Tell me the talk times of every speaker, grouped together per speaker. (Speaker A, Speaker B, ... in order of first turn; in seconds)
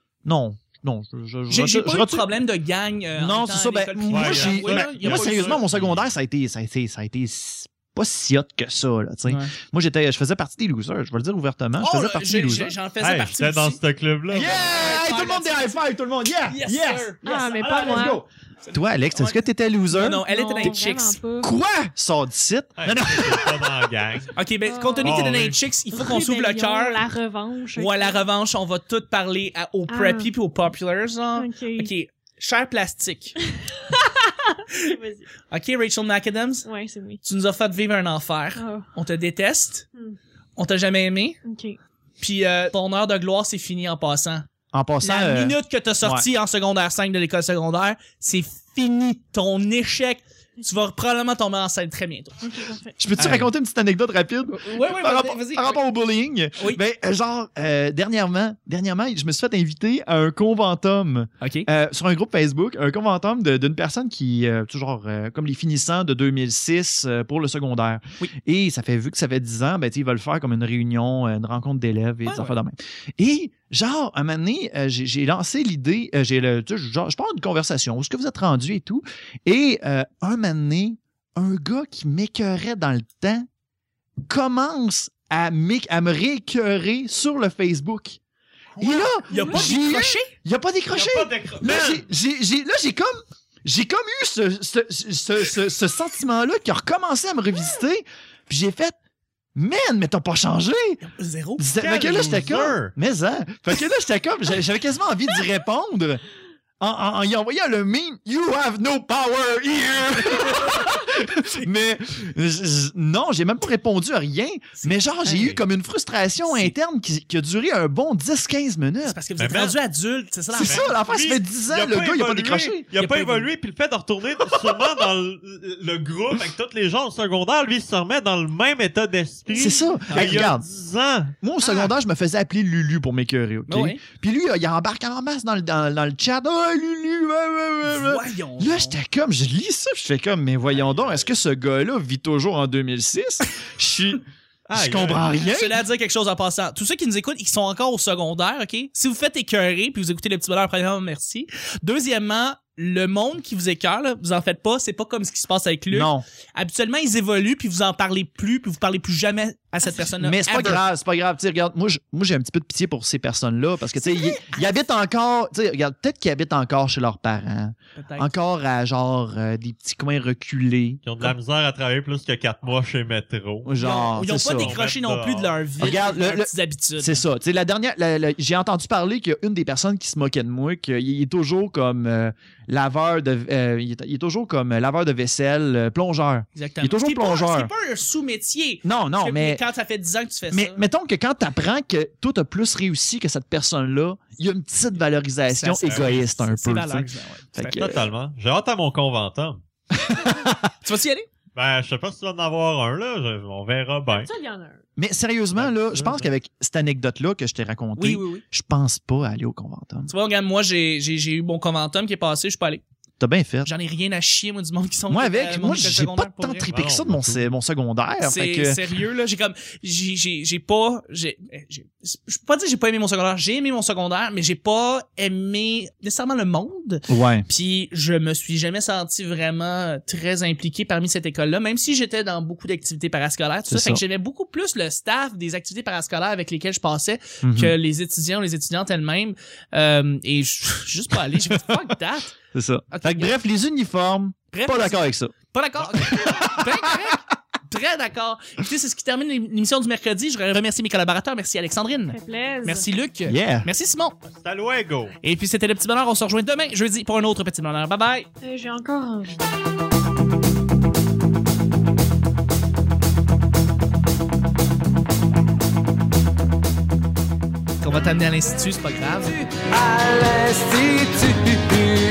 Speaker A: 0.2-2.3, 3.1-12.7, 14.3-20.8, 21.4-23.9, 44.7-46.2, 53.0-83.5, 84.2-88.2, 88.8-98.9, 99.5-101.0, 101.6-106.2, 106.8-119.2, 120.5-122.8, 129.5-130.7, 131.4-145.8, 155.9-156.2, 160.1-171.0, 173.6-174.8, 175.8-187.7, 188.8-189.6, 190.5-198.0, 199.9-200.7, 205.0-210.1, 213.2-213.7, 215.1-218.8, 227.1-227.5, 233.7-234.0, 237.4-237.7, 242.5-245.3, 246.1-247.2, 253.3-253.7
Speaker B: 1.5-5.6, 9.3-9.5, 11.8-13.8, 14.4-15.8, 16.5-19.4, 19.9-21.2, 24.3-27.1, 27.8-33.4, 35.5-36.7, 37.2-39.9, 40.6-41.4, 42.2-44.5, 45.0-52.4, 53.1-53.5, 54.5-55.8, 61.4-61.7, 72.3-72.5, 89.3-90.3, 101.0-101.7, 114.8-115.5, 116.5-116.7, 119.0-120.9, 123.0-123.5, 124.5-124.9, 130.1-130.4, 131.6-131.9, 133.7-134.0, 137.9-139.0, 145.4-160.8, 164.0-164.8, 167.9-168.3, 173.8-177.2, 186.5-190.8, 195.5-198.0, 200.8-201.3, 208.0-208.4, 210.1-212.8, 213.6-216.7, 218.2-242.3, 242.9-243.3, 244.5-254.2, 255.2-258.3, 267.8-269.4, 270.6-271.4
Speaker C: 4.1-6.0, 13.0-14.6, 17.6-18.0, 22.8-24.4, 25.0-25.6, 88.7-89.1, 90.9-92.1, 101.8-102.9, 119.4-119.8, 120.6-131.3, 140.7-141.3, 144.7-145.3, 171.0-173.7, 174.4-175.7, 195.8-196.2, 197.7-199.6, 201.5-204.3, 205.5-206.3, 216.7-217.4, 254.2-255.2
Speaker D: 17.2-18.2, 20.1-21.5, 24.6-25.2, 25.9-28.2, 29.9-30.3, 31.4-31.9, 33.5-35.3, 36.6-37.2, 38.5-38.9, 41.4-41.8, 52.4-53.0, 204.1-204.8, 252.1-252.9, 258.4-259.4